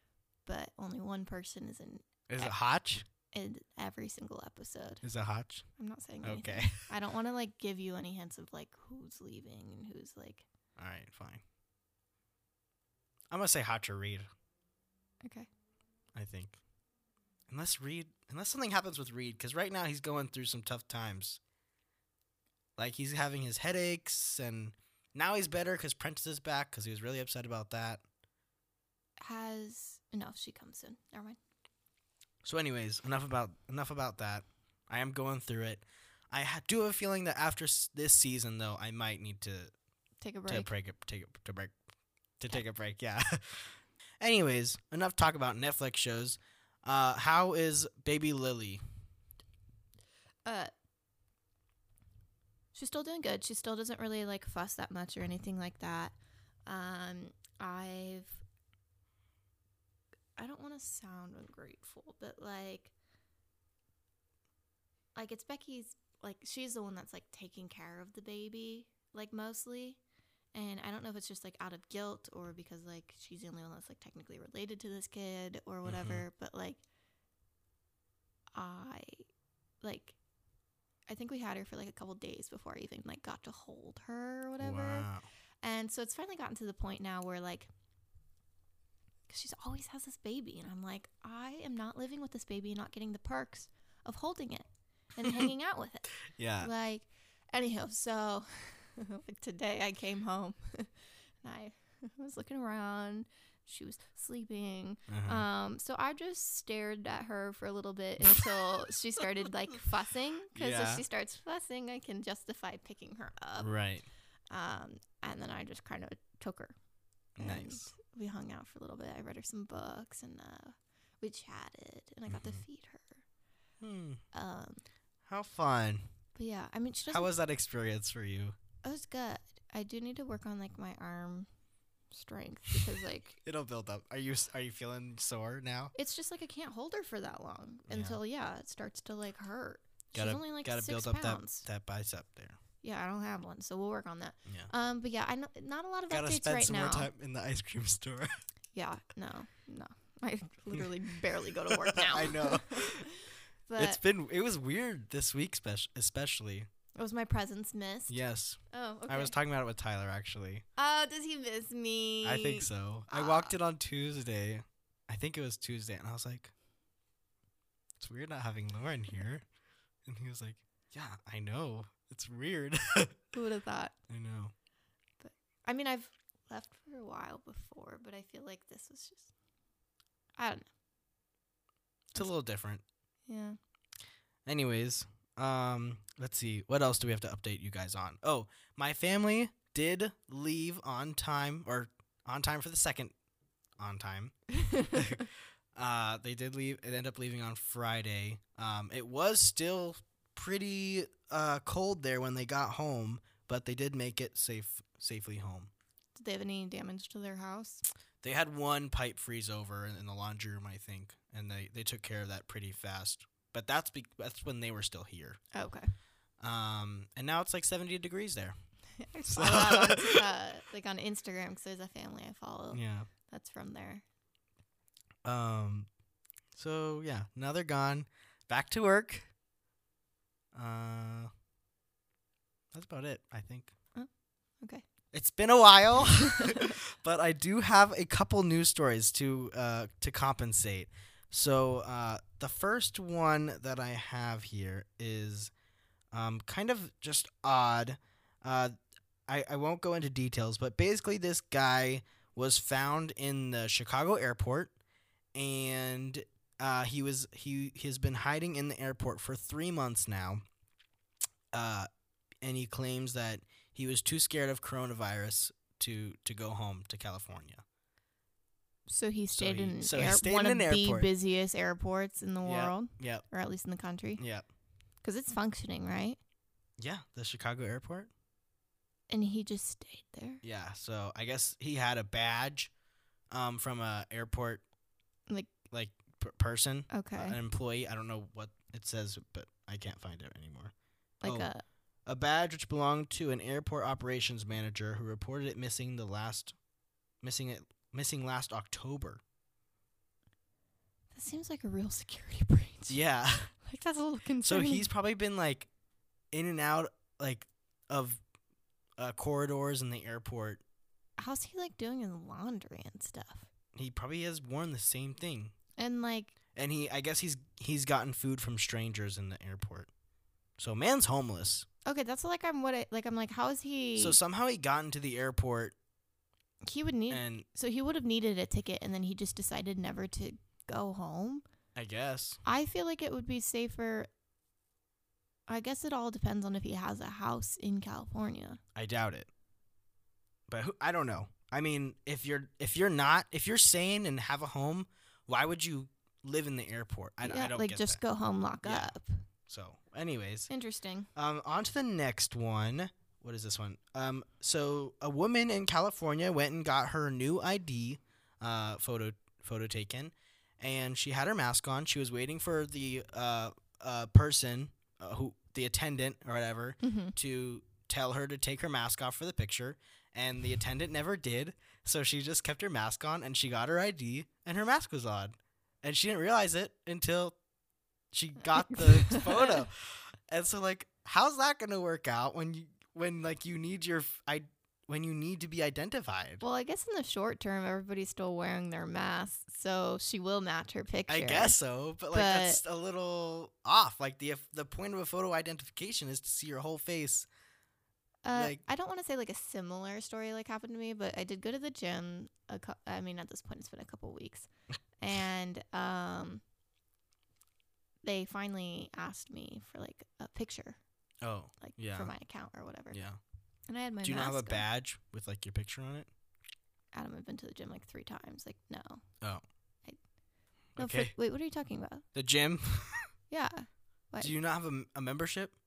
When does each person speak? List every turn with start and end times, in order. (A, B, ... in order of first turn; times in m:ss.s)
0:00.4-0:02.5 A
0:02.3-0:03.0 B
0:03.3-0:05.0 A
0:05.0-0:05.7 B
0:05.8-0:10.4 A
0:06.2-0:06.8 B
0:10.8-0:11.4 B
0:13.3-0:14.3 B
0:15.2-0:15.5 A
0:16.1-0:16.6 B
0:17.5-0:21.4 B
0:22.8-0:28.0 B
0:29.2-0:31.4 A
0:32.4-0:39.7 B
0:40.2-0:40.7 A
0:40.5-0:41.8 B
0:42.4-0:48.8 B
0:50.4-0:50.7 A
0:52.7-0:56.1 A
0:56.6-0:58.4 A
1:00.4-1:02.9 A
1:05.1-1:10.0 A
1:10.5-1:16.8 A
1:15.8-1:16.2 B
1:18.5-1:19.2 A
1:19.8-1:20.2 A
1:21.1-1:25.1 A
1:24.6-1:25.2 B
1:25.6-1:27.7 A
1:29.3-1:53.7 A
1:36.3-1:36.7 B
1:45.1-1:45.4 B
1:50.5-1:51.0 B
1:53.6-1:54.1 B
1:54.5-1:56.7 A
1:57.4-1:57.9 B
1:57.4-2:03.2 A
2:02.3-2:02.6 B
2:03.8-2:04.2 B
2:04.3-2:04.8 A
2:05.3-2:06.0 B
2:06.3-2:07.3 A
2:07.1-2:08.6 B
2:08.8-2:11.5 A
2:12.1-2:13.4 A
2:13.4-2:15.9 B
2:15.9-2:21.6 A
2:17.9-2:18.2 B
2:20.1-2:22.6 B
2:22.8-2:27.1 A
2:26.1-2:28.3 B
2:28.7-2:34.0 A
2:31.7-2:33.1 B
2:33.8-2:36.7 B
2:37.0-2:38.2 A
2:38.1-2:40.6 B
2:38.7-2:39.4 A
2:40.8-2:43.5 A
2:42.2-2:46.5 B
2:48.0-2:49.4 B
2:50.0-2:53.2 B
2:53.3-2:53.9 A
2:54.1-2:54.5 B
2:55.2-2:59.3 A
3:00.4-3:00.7 A
3:02.1-3:02.8 B
3:03.3-3:03.6 A
3:04.4-3:13.1 B
3:13.8-3:25.7 B
3:14.6-3:14.9 A
3:26.1-3:27.8 A
3:28.2-3:35.4 B
3:35.5-3:35.9 A
3:36.4-3:38.5 B
3:39.0-3:44.0 A
3:39.3-3:40.3 B
3:42.7-3:43.1 B
3:45.2-3:45.9 B
3:46.5-3:49.3 B
3:50.5-3:51.3 B
3:52.7-3:53.7 B
3:55.1-4:05.5 B
3:56.4-3:56.7 A
4:06.1-4:08.8 B
4:09.3-4:14.7 B
4:15.3-4:20.4 B
4:21.5-4:21.9 B
4:22.4-4:27.6 B
4:28.9-4:34.2 A
4:29.3-4:31.1 B
4:32.4-4:33.2 B
4:34.2-4:34.4 B
4:35.0-4:36.2 A
4:36.8-4:38.1 B
4:39.1-4:40.4 A
4:40.4-4:42.7 B
4:43.3-4:44.6 B
4:45.3-4:45.5 A
4:45.7-4:50.7 B
4:46.9-4:47.4 A
4:51.2-4:51.6 A
4:51.2-4:51.5 B
4:52.0-4:56.6 B
4:57.2-4:59.2 B
5:01.1-5:03.0 A
5:02.9-5:03.5 B
5:03.6-5:04.9 A
5:04.4-5:05.7 B
5:06.3-5:08.2 B
5:09.0-5:10.6 B
5:11.2-5:13.5 A
5:13.7-5:15.5 B
5:15.8-5:16.3 A
5:16.5-5:19.9 B
5:20.6-5:21.7 B
5:21.8-5:24.2 A
5:24.0-5:25.7 B
5:26.6-5:31.4 A
5:27.1-5:27.4 B
5:31.7-5:32.4 B
5:32.4-5:34.1 A
5:35.5-5:38.6 A
5:38.7-5:39.3 B
5:40.5-5:48.0 B
5:47.2-5:49.2 A
5:48.6-5:48.9 B
5:49.5-5:50.5 B
5:50.5-5:51.1 A
5:51.1-6:17.4 B
6:06.8-6:07.1 A
6:18.1-6:26.4 B
6:18.7-6:19.6 A
6:26.4-6:31.6 A
6:31.1-6:37.3 B
6:32.1-6:32.6 A
6:38.2-6:44.5 A
6:38.3-6:38.6 B
6:45.0-6:46.4 A
6:48.0-6:50.8 A
6:51.2-6:52.1 B
6:51.6-6:53.0 A
6:52.9-6:53.2 B
6:53.7-6:54.6 A
6:54.0-6:56.1 B
6:56.9-6:59.0 A
7:00.8-7:01.1 B
7:00.8-7:02.0 A
7:02.1-7:03.1 B
7:03.3-7:04.3 A
7:04.2-7:05.5 B